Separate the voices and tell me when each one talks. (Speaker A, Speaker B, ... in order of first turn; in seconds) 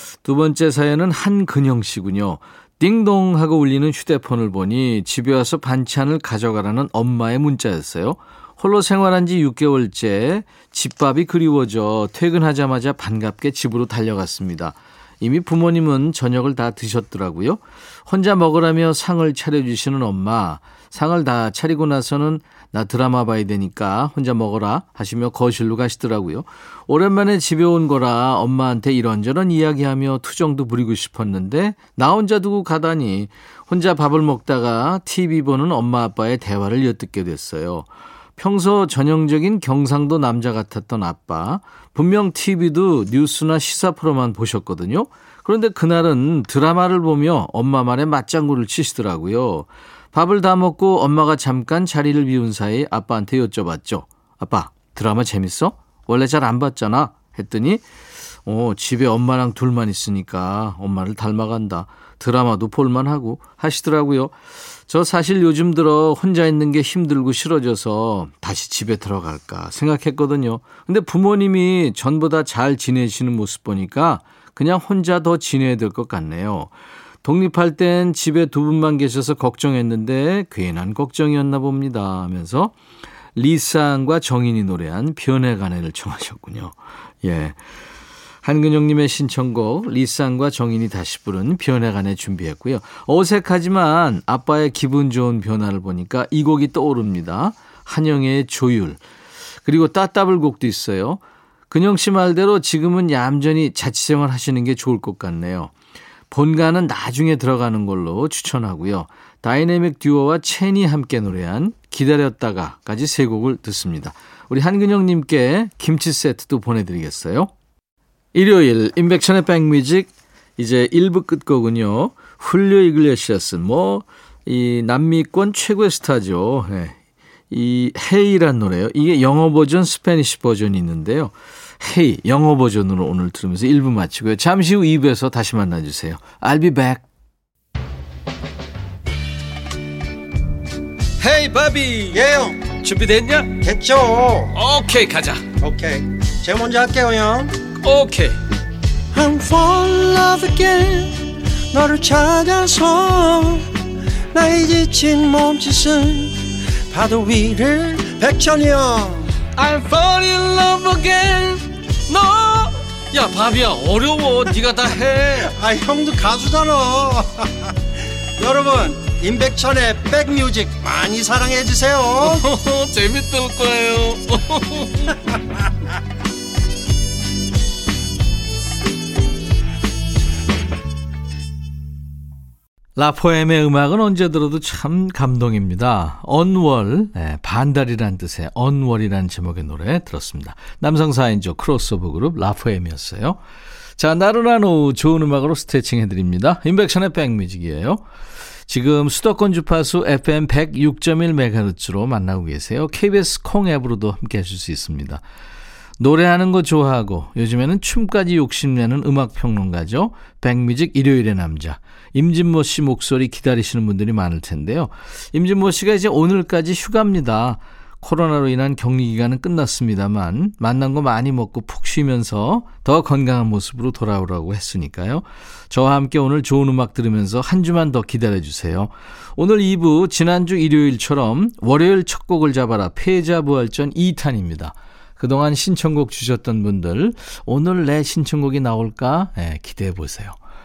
Speaker A: 0.2-57.8, 58.5-64.3, 64.9-76.7, 77.2-82.8, 83.3-87.6, 88.4-99.0, 99.7-105.7, 106.3-117.5, 118.3-127.0, 127.5-137.0, 141.2-142.2, 142.8-143.6, 144.5-145.4, 147.8-148.4, 159.6-165.6, 172.2-175.2, 183.0-193.4, 194.0-198.0, 198.7-205.2, 206.0-240.4
Speaker B: 142.1-142.8, 143.6-144.6, 145.6-147.6, 149.1-153.7, 154.3-159.4, 165.5-167.7, 168.4-172.4